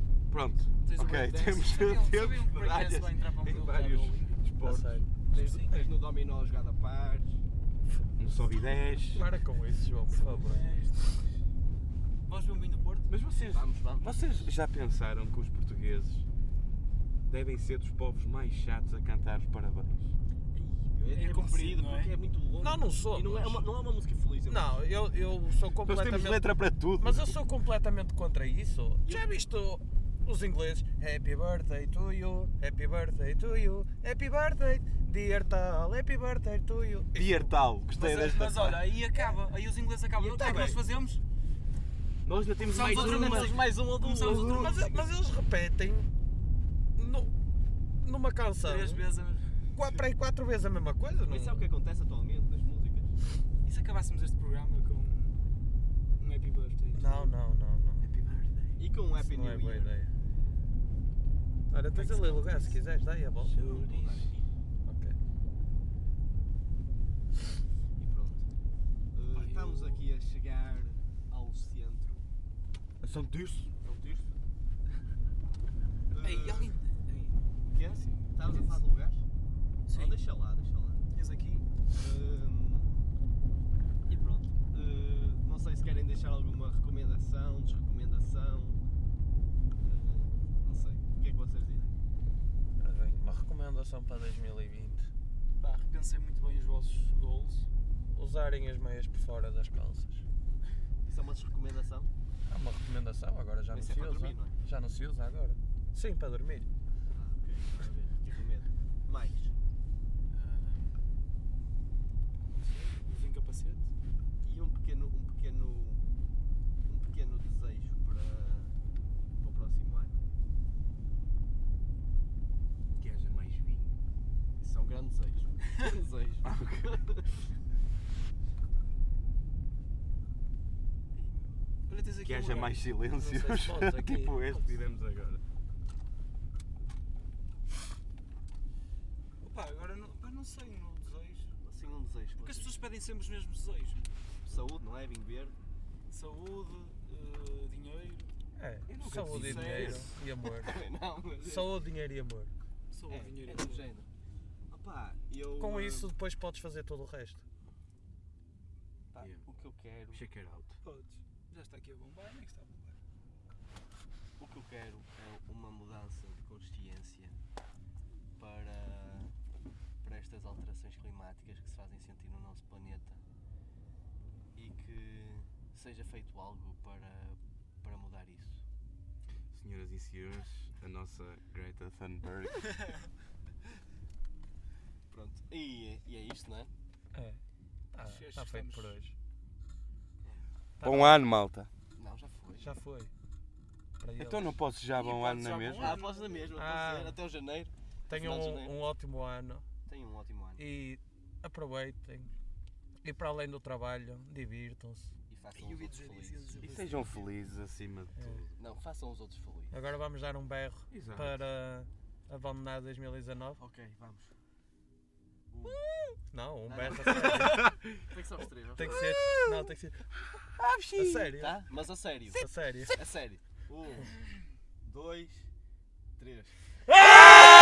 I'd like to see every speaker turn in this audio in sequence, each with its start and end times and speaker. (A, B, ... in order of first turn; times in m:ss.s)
0:00.3-0:05.1 A
0:00.8-0:04.4 B
0:04.6-0:05.0 C
0:05.3-0:07.4 D
0:05.3-0:05.9 B
0:08.2-0:09.3 A
0:09.0-0:10.7 C
0:10.1-0:11.3 B
0:12.2-0:13.1 B
0:13.1-0:16.2 A
0:13.5-0:14.2 D
0:17.2-0:20.1 A
0:20.5-0:24.8 D
0:21.1-0:22.1 B
0:22.6-0:23.6 C
0:24.5-0:26.4 C
0:25.8-0:27.3 A
0:27.0-0:37.5 C
0:29.0-0:29.3 D
0:37.1-0:38.8 A
0:37.9-0:41.2 B
0:40.2-0:40.7 D
0:40.3-0:40.8 C
0:42.2-0:43.5 A
0:42.6-0:45.0 B
0:42.8-0:44.7 D
0:43.2-0:43.5 C
0:44.2-0:46.1 C
0:47.0-0:47.3 C
0:48.0-0:49.0 C
0:48.6-0:50.0 B
0:49.7-0:51.6 C
0:51.3-0:53.1 D
0:53.6-0:55.4 B
0:56.2-0:57.3 B
0:56.9-0:58.1 C
0:58.0-0:58.8 A
0:58.8-1:00.0 D
0:59.2-1:00.1 C
1:01.7-1:03.6 C
1:01.9-1:02.8 B
1:03.4-1:04.3 A
1:03.6-1:04.5 D
1:04.8-1:05.2 C
1:08.0-1:08.5 D
1:09.1-1:12.3 D
1:09.3-1:10.0 B
1:13.0-1:13.3 C
1:13.3-1:13.7 A
1:13.8-1:14.3 D
1:16.1-1:16.7 D
1:16.2-1:18.8 B
1:17.7-1:19.2 D
1:19.8-1:20.2 B
1:19.9-1:21.0 D
1:21.1-1:21.7 B
1:21.9-1:23.0 D
1:24.1-1:28.8 D
1:29.8-1:31.9 D
1:32.8-1:35.1 C
1:35.6-1:37.7 B
1:38.1-1:40.2 C
1:41.0-1:42.1 D
1:42.4-1:46.7 C
1:43.7-1:44.6 D
1:47.1-1:49.5 D
1:50.3-1:51.0 B
1:52.4-1:53.9 B
1:54.4-1:56.0 D
1:56.8-1:58.8 D
1:59.4-2:00.2 D
2:03.0-2:04.0 A
2:04.6-2:07.3 D
2:06.4-2:06.9 A
2:11.1-2:11.6 D
2:11.9-2:12.8 B
2:12.2-2:15.4 A
2:13.1-2:14.4 C
2:19.4-2:21.5 B
2:21.6-2:22.7 D
2:22.4-2:24.1 B
2:24.4-2:25.6 D
2:26.1-2:28.3 B
2:28.6-2:30.8 C
2:28.9-2:30.1 A
2:29.2-2:30.1 B
2:30.4-2:31.7 D
2:31.4-2:32.5 C
2:32.9-2:33.9 B
2:33.1-2:34.1 D
2:34.7-2:36.1 D
2:35.6-2:37.4 C
2:39.1-2:40.2 D
2:39.2-2:39.4 A
2:40.1-2:40.8 A
2:40.8-2:43.0 B
2:44.4-2:47.4 D
2:48.4-2:49.3 D
2:50.0-2:53.2 D
2:54.5-2:58.6 D
2:59.5-3:02.7 A
3:05.1-3:06.7 D
3:07.1-3:07.4 C
3:07.9-3:09.1 C
3:08.0-3:09.0 B
3:10.8-3:11.3 C
3:10.8-3:11.7 A
3:12.0-3:12.8 D
3:12.6-3:13.1 C
3:14.0-3:14.5 C
3:14.2-3:16.0 A
3:14.9-3:16.5 B
3:15.7-3:18.7 D
3:16.5-3:17.2 C
3:18.1-3:19.6 C
3:19.8-3:20.6 D
3:20.6-3:22.3 C
3:23.0-3:25.1 C
3:25.3-3:26.9 D
3:25.5-3:27.3 B
3:26.6-3:28.5 A
3:28.6-3:29.8 D
3:29.7-3:33.6 C
3:30.9-3:31.4 A
3:33.6-3:34.3 D
3:35.5-3:35.8 D
3:36.3-3:37.7 C
3:36.7-3:39.0 D
3:37.4-3:37.7 A
3:38.7-3:40.0 C
3:38.8-3:39.7 A
3:40.3-3:41.4 A
3:41.0-3:41.6 C
3:41.4-3:44.1 D
3:42.3-3:43.0 C
3:44.8-3:45.5 D
3:46.2-3:46.6 D